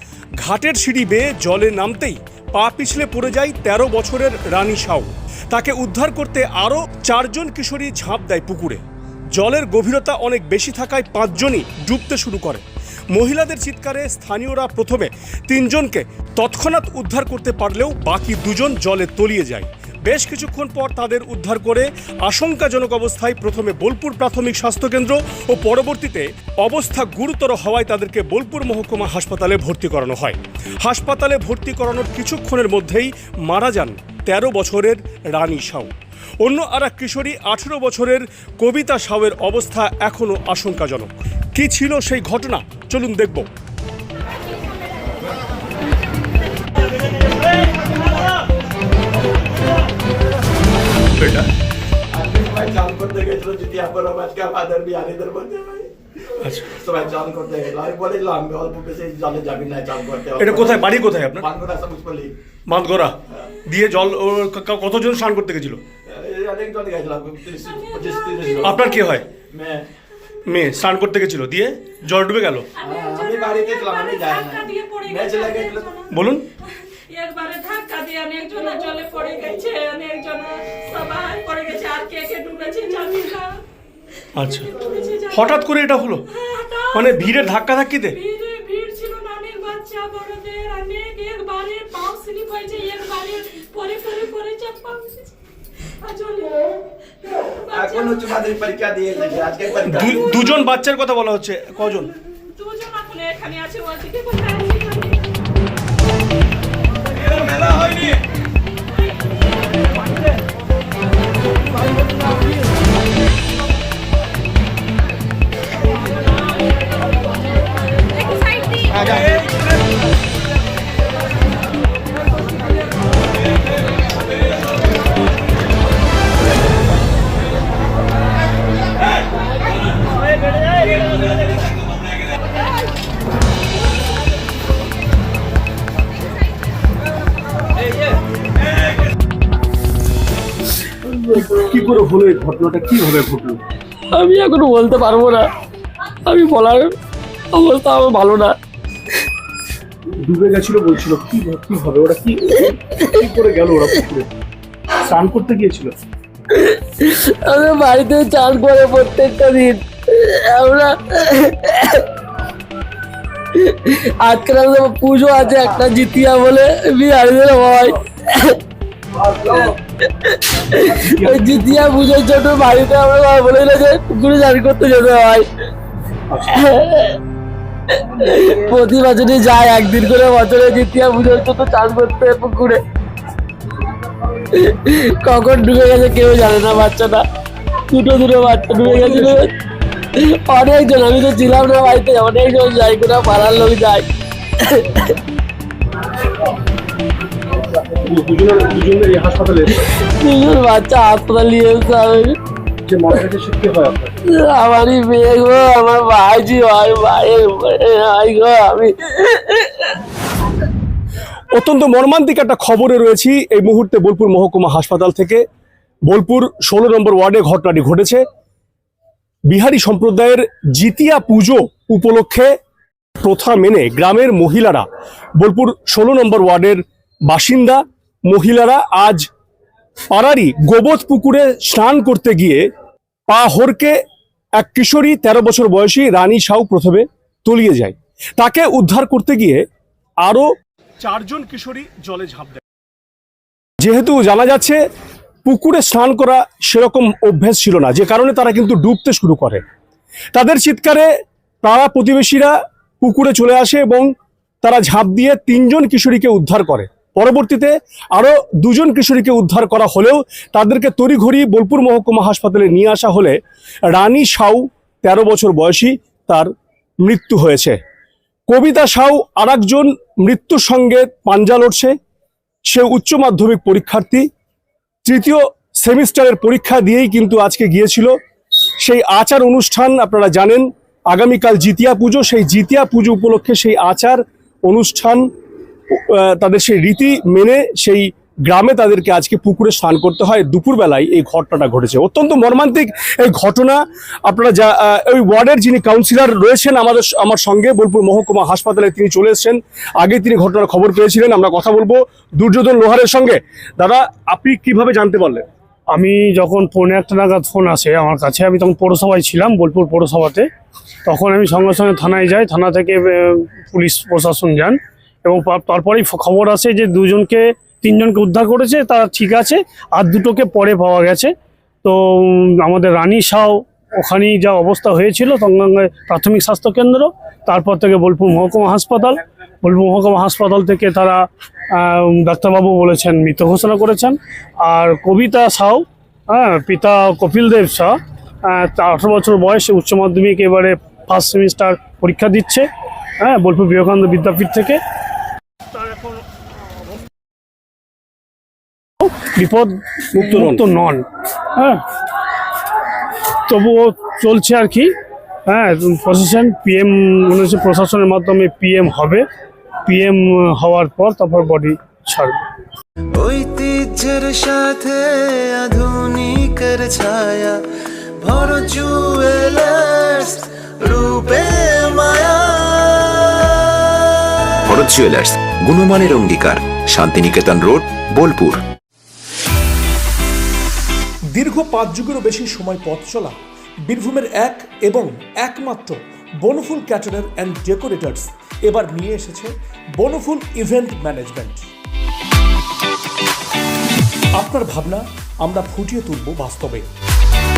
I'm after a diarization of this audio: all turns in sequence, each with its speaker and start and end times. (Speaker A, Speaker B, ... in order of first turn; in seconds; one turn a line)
Speaker A: 0.4-8.8
Speaker A: 9.3-35.9
Speaker A: 36.4-43.5
Speaker A: 51.1-51.5
Speaker B: 52.1-55.9
Speaker A: 56.4-56.7
Speaker B: 56.7-62.4
Speaker A: 60.4-61.5
Speaker A: 62.7-65.8
Speaker B: 66.0-68.8
Speaker C: 67.7-69.0
Speaker A: 68.6-69.3
Speaker B: 69.5-69.9
Speaker A: 70.5-72.7
Speaker C: 72.8-83.6
Speaker B: 72.8-75.9
Speaker A: 76.1-76.5
Speaker A: 84.4-84.8
Speaker C: 84.7-85.6
Speaker A: 85.3-86.3
Speaker C: 86.3-87.3
Speaker A: 86.9-88.2
Speaker C: 88.1-95.3
Speaker C: 96.0-98.3
Speaker B: 97.7-100.3
Speaker A: 99.9-102.1
Speaker C: 102.5-105.3
Speaker C: 107.5-108.0
Speaker B: 119.1-119.4
Speaker A: 141.3-143.6
Speaker D: 144.1-145.5
Speaker D: 146.2-146.9
Speaker D: 147.5-148.6
Speaker A: 150.2-154.3
Speaker A: 154.9-155.9
Speaker D: 156.5-162.1
Speaker D: 163.5-168.6
Speaker A: 169.3-169.6
Speaker D: 170.0-175.5
Speaker A: 170.9-171.8
Speaker D: 176.5-177.2
Speaker D: 177.9-182.8
Speaker D: 184.3-187.3
Speaker D: 187.9-189.5
Speaker A: 188.8-189.4
Speaker D: 190.1-195.2
Speaker A: 197.8-199.8
Speaker D: 199.9-202.4
Speaker A: 202.9-204.1
Speaker D: 204.2-210.0
Speaker A: 211.5-215.4
Speaker A: 216.1-218.2
Speaker A: 219.5-222.5
Speaker A: 223.2-224.9
Speaker A: 225.4-229.3
Speaker A: 230.1-232.6
Speaker A: 233.3-234.0
Speaker A: 234.6-239.6
Speaker A: 241.0-242.6
Speaker A: 243.8-244.8
Speaker A: 245.4-249.6
Speaker A: 250.3-251.1
Speaker A: 251.6-254.1
Speaker A: 254.6-266.5
Speaker A: 267.0-267.8
Speaker A: 268.5-272.0
Speaker A: 272.7-274.3
Speaker A: 275.1-278.1
Speaker A: 278.8-285.3
Speaker A: 285.9-305.5
Speaker E: 305.9-310.5
Speaker E: 311.1-321.3
Speaker E: 321.8-342.7
Speaker E: 343.2-344.8
Speaker E: 345.7-346.2
Speaker E: 349.0-351.9
Speaker A: 350.1-350.6
Speaker E: 353.5-354.9
Speaker E: 355.5-359.3
Speaker E: 359.9-362.5
Speaker F: 363.1-367.7
Speaker F: 368.2-374.1
Speaker G: 374.6-378.6
Speaker A: 381.4-391.7
Speaker A: 394.4-396.9